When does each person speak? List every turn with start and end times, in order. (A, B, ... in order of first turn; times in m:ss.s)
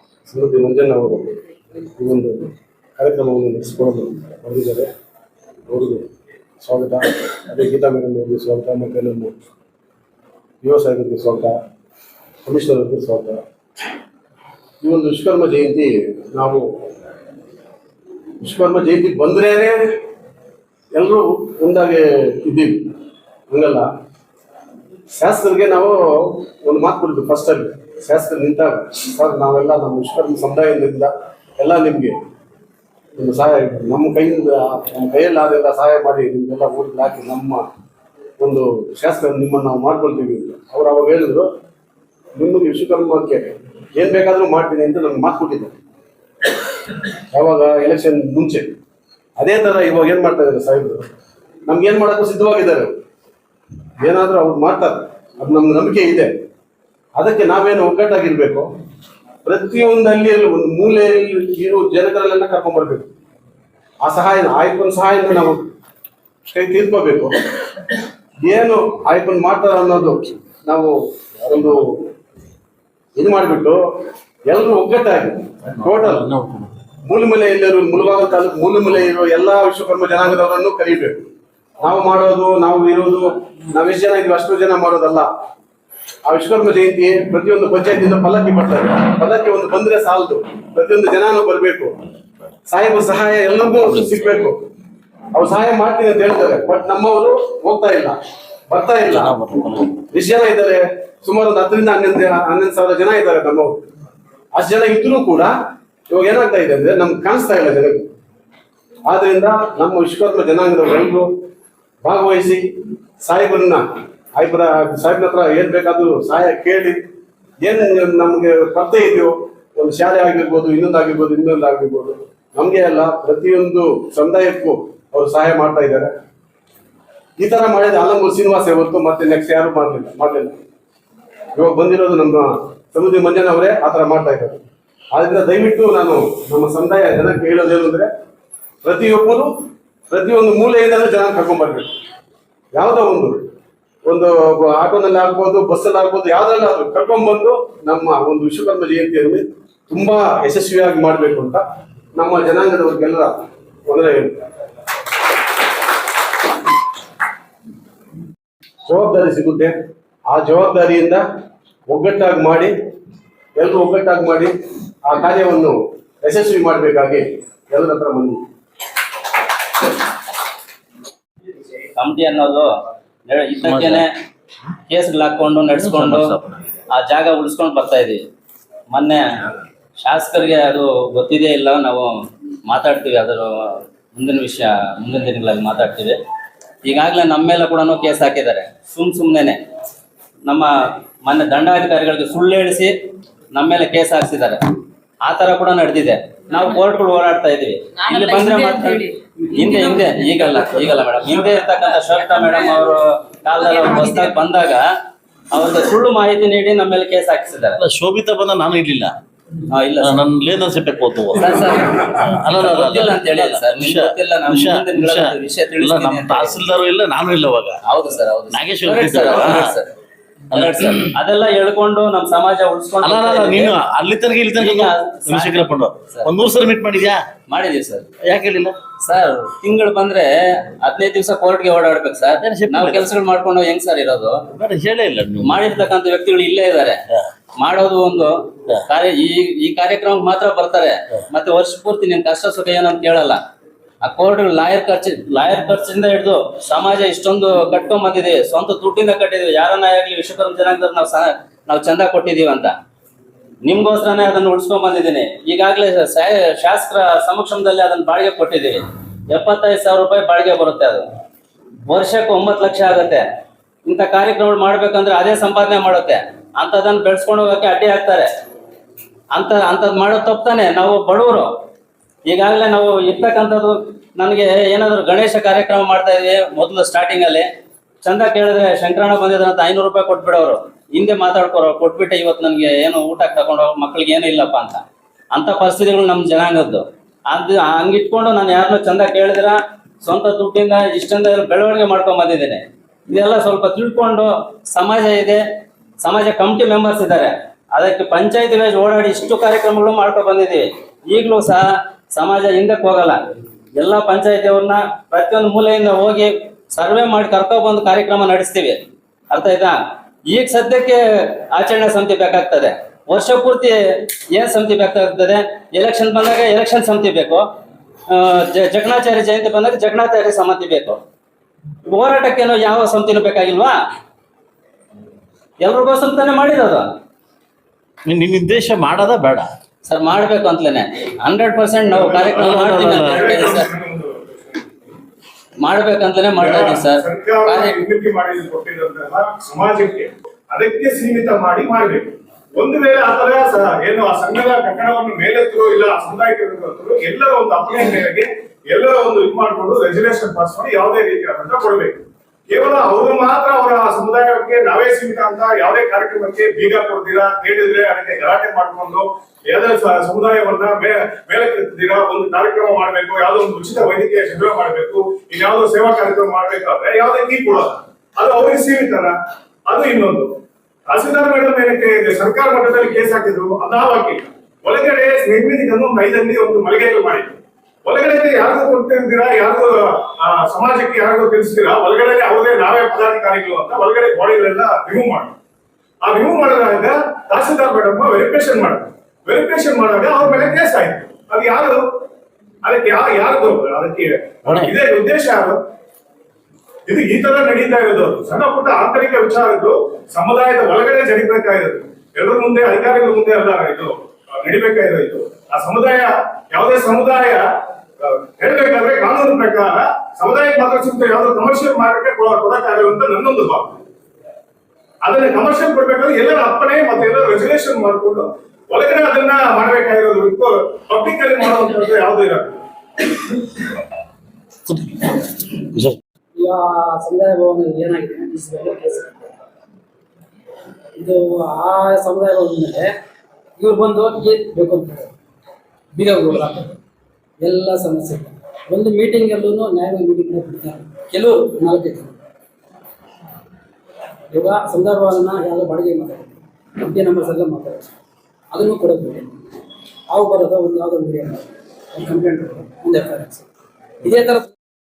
0:00.2-0:04.9 A
0:05.7-0:06.0 A
0:06.6-0:09.3 A
0:10.6-0:11.6 A
0:12.4-0:13.4 A
0:14.8-0:16.6 A
0:18.4-0:19.8 A
0:20.9-0:22.9 A
0:23.5-0:23.9 A
0:25.2-0:32.2 A
0:33.2-0:37.6 A
0:38.4-0:41.4 A
0:42.4-0:45.7 A
0:47.3-0:48.7 A
0:49.4-0:51.0 A
0:51.7-0:52.9 A
0:54.0-0:56.3 A
0:57.2-0:58.7 A
0:59.4-1:03.1 A
1:04.0-1:05.6 A
1:06.4-1:07.4 A
1:08.4-1:12.1 A
1:13.2-1:13.8 A
1:14.5-1:16.3 A
1:15.8-1:16.8 B
1:17.0-1:21.2 A
1:21.8-1:25.3 A
1:26.2-1:32.0 A
1:32.7-1:34.6 A
1:33.7-1:34.5 B
1:35.3-1:38.2 A
1:38.7-1:39.5 A
1:39.0-1:40.0 B
1:40.0-1:43.7 A
1:44.5-1:45.5 A
1:46.1-1:48.0 A
1:49.0-1:51.3 A
1:52.0-1:52.6 A
1:53.2-1:53.8 A
1:54.4-1:57.0 A
1:57.6-2:06.1 A
2:07.4-2:10.5 A
2:11.5-2:14.6 A
2:15.1-2:18.1 A
2:18.8-2:19.5 A
2:20.1-2:21.9 A
2:22.7-2:23.4 A
2:24.1-2:31.6 A
2:32.2-2:33.3 A
2:33.8-2:34.4 A
2:38.9-2:39.7 A
2:40.3-2:41.2 A
2:41.9-2:42.7 A
2:43.6-2:44.5 A
2:45.0-2:48.4 A
2:51.9-2:52.7 C
2:53.2-2:54.1 C
2:53.6-2:54.0 B
2:54.9-2:56.4 C
2:55.8-2:56.6 B
2:56.9-2:58.2 C
2:58.9-3:02.1 C
3:02.7-3:06.2 C
3:06.8-3:09.6 C
3:10.4-3:10.7 C
3:11.2-3:12.9 C
3:13.5-3:14.6 C
3:15.2-3:24.8 C
3:25.5-3:27.8 C
3:27.8-3:29.1 B
3:29.6-3:30.2 C
3:30.0-3:31.5 B
3:31.3-3:36.6 C
3:32.1-3:37.8 B
3:37.8-3:39.9 C
3:38.5-3:39.7 B
3:40.5-3:43.8 C
3:40.5-3:41.1 B
3:43.0-3:47.2 B
3:44.6-3:46.3 C
3:47.5-3:48.1 C
3:48.2-3:48.8 B
3:49.0-3:54.4 C
3:52.4-3:53.1 B
3:54.5-3:55.7 B
3:55.4-3:57.0 C
3:57.6-4:03.4 C
4:04.0-4:12.7 C
4:13.6-4:21.1 C
4:21.9-4:23.2 C
4:23.8-4:28.3 C
4:29.3-4:31.5 C
4:32.3-4:37.5 C
4:38.0-4:44.8 C
4:45.3-4:55.4 C
4:56.0-5:03.2 C
5:03.8-5:17.4 C
5:18.1-5:21.0 C
5:21.8-5:23.8 C
5:25.6-5:26.9 C
5:28.0-5:29.5 B
5:29.8-5:33.7 C
5:31.8-5:34.6 D
5:32.4-5:33.4 B
5:35.6-5:37.8 C
5:36.4-6:09.2 D
6:09.7-6:10.4 D
6:10.9-6:25.3 D
6:26.0-6:31.8 D
6:32.6-6:35.6 D
6:34.4-6:34.7 B
6:36.9-6:47.4 D
6:48.0-6:53.8 D
6:55.0-7:02.6 D
7:04.7-7:05.0 B
7:06.4-7:09.1 E
7:11.0-7:12.9 E
7:13.6-7:15.1 E
7:15.9-7:16.8 E
7:17.4-7:22.2 E
7:24.3-7:27.9 E
7:28.5-7:29.3 E
7:30.1-7:33.4 E
7:34.0-7:34.5 E